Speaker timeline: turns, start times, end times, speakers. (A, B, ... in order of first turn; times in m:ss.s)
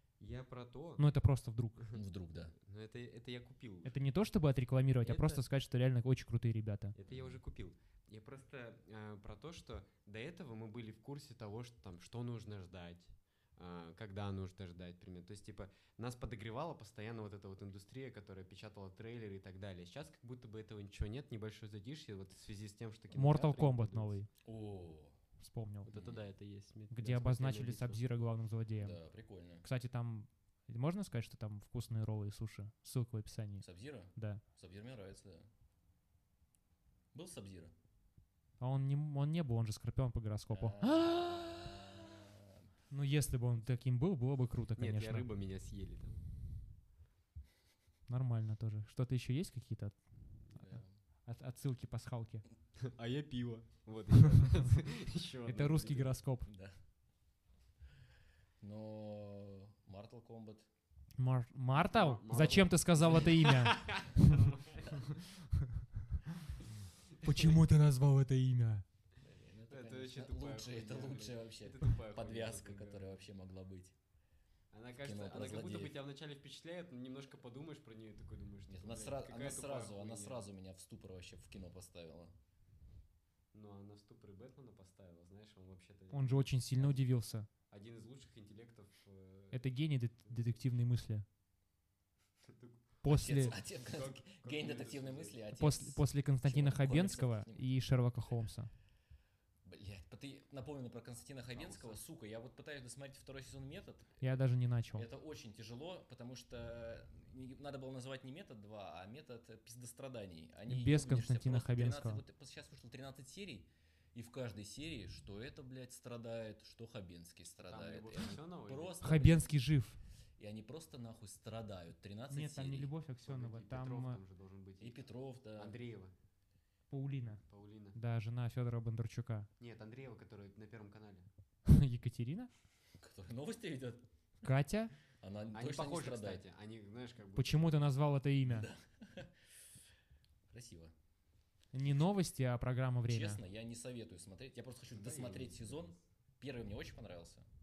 0:00.2-0:01.0 A
0:01.0-0:01.8 B
0:01.9-0:02.5 C
0:02.5-0:04.0 A
0:03.8-0:06.9 B
0:05.0-0:05.4 A
0:06.9-0:24.1 A
0:07.1-0:07.4 C
0:23.1-0:24.3 B
0:24.4-0:25.2 C
0:25.4-0:25.9 B
0:25.8-0:28.0 A
0:25.9-0:26.2 C
0:26.9-0:29.0 B
0:28.8-0:29.6 C
0:29.6-0:34.4 B
0:33.6-0:35.5 C
0:37.1-0:37.7 C
0:38.6-0:41.4 B
0:40.5-0:42.6 C
0:42.9-0:45.2 B
0:44.8-0:46.2 A
0:48.1-0:52.4 B
0:50.6-0:51.0 C
0:52.8-0:56.2 A
0:55.5-0:56.5 B
0:56.4-0:56.8 C
0:58.6-1:00.7 C
1:01.2-1:04.3 B
1:01.8-1:05.2 A
1:03.0-1:03.3 C
1:07.2-1:08.8 B
1:07.3-1:07.5 A
1:09.2-1:13.9 C
1:09.7-1:13.2 A
1:14.7-1:20.4 A
1:15.0-1:15.9 C
1:18.7-1:22.3 C
1:23.5-1:27.0 A
1:26.1-1:27.5 B
1:27.7-1:29.6 A
1:29.5-1:31.2 B
1:30.3-1:30.6 A
1:32.4-1:35.4 A
1:33.0-1:33.6 B
1:33.1-1:37.7 C
1:35.5-1:38.7 B
1:39.6-1:44.2 C
1:41.5-1:42.0 A
1:44.2-1:45.0 B
1:44.9-1:59.6 C
1:50.7-1:52.2 B
1:57.6-1:59.2 A
1:59.0-2:00.0 B
2:00.4-2:02.9 C
2:02.3-2:04.2 B
2:03.2-2:05.0 A
2:04.8-2:05.7 C
2:05.6-2:06.1 A
2:06.9-2:09.5 B
2:07.5-2:08.0 A
2:09.6-2:11.3 A
2:11.6-2:12.5 B
2:13.0-2:14.0 C
2:14.4-2:14.9 B
2:15.2-2:16.4 C
2:15.5-2:17.9 A
2:17.4-2:18.7 B
2:18.4-2:19.3 C
2:20.5-2:20.9 C
2:21.7-2:23.4 B
2:23.1-2:27.4 C
2:24.9-2:26.0 A